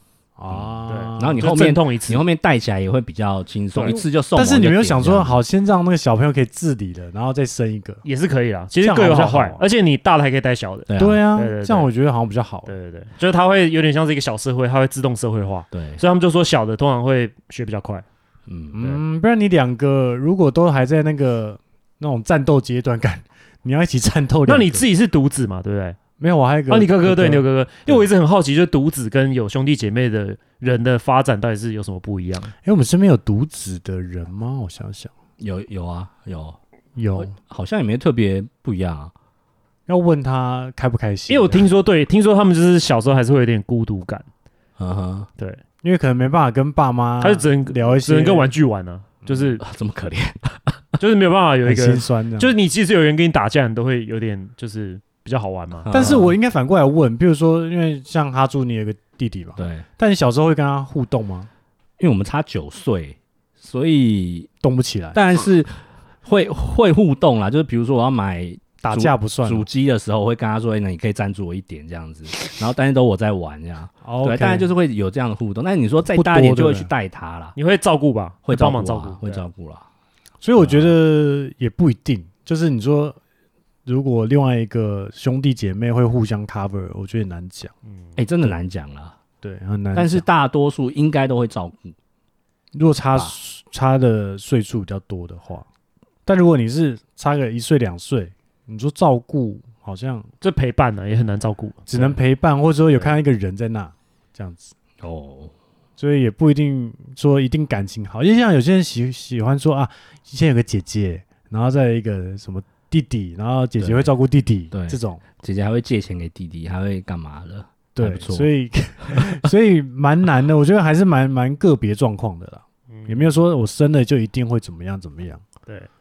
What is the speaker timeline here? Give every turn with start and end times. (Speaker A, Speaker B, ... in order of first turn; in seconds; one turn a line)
Speaker A: 0.4-1.5
Speaker B: 0.5-5.4
Speaker C: 0.9-2.2
Speaker A: 3.8-8.0
Speaker C: 8.0-11.9
Speaker A: 8.8-9.7
Speaker B: 10.9-11.2
Speaker A: 11.0-12.7
Speaker C: 12.7-18.0
Speaker B: 15.7-16.0
Speaker B: 18.5-18.8
Speaker A: 18.7-24.9
Speaker C: 24.4-26.0
Speaker A: 26.2-28.1
Speaker C: 26.7-32.5
Speaker A: 32.6-35.1
Speaker B: 35.4-36.6
Speaker A: 37.0-37.3
Speaker B: 37.2-39.1
Speaker A: 39.9-41.7
Speaker C: 41.3-44.2
Speaker B: 44.8-45.3
Speaker A: 45.8-48.5
Speaker C: 47.2-49.6
Speaker A: 49.2-49.5
Speaker B: 49.6-50.8
Speaker C: 51.0-55.9
Speaker A: 51.6-52.5
Speaker B: 55.8-56.4
Speaker A: 55.9-61.5
Speaker B: 59.6-59.9
Speaker B: 62.0-64.5
Speaker A: 64.6-65.2
Speaker B: 65.1-77.5
Speaker A: 68.8-69.7
Speaker A: 74.0-74.7
Speaker A: 76.1-76.9
Speaker C: 77.5-79.5
Speaker B: 78.5-79.8
Speaker A: 80.4-83.2
Speaker B: 80.6-80.9
Speaker A: 83.8-87.7
Speaker B: 88.2-89.1
Speaker A: 89.4-90.2
Speaker B: 89.9-91.9
Speaker A: 92.7-95.7
Speaker A: 96.2-100.3
Speaker C: 100.4-102.1
Speaker A: 101.9-104.7
Speaker B: 105.0-105.5
Speaker A: 106.0-115.2
Speaker B: 113.8-114.1
Speaker B: 114.7-118.5
Speaker A: 117.9-125.4
Speaker B: 119.0-119.4
Speaker C: 122.9-123.3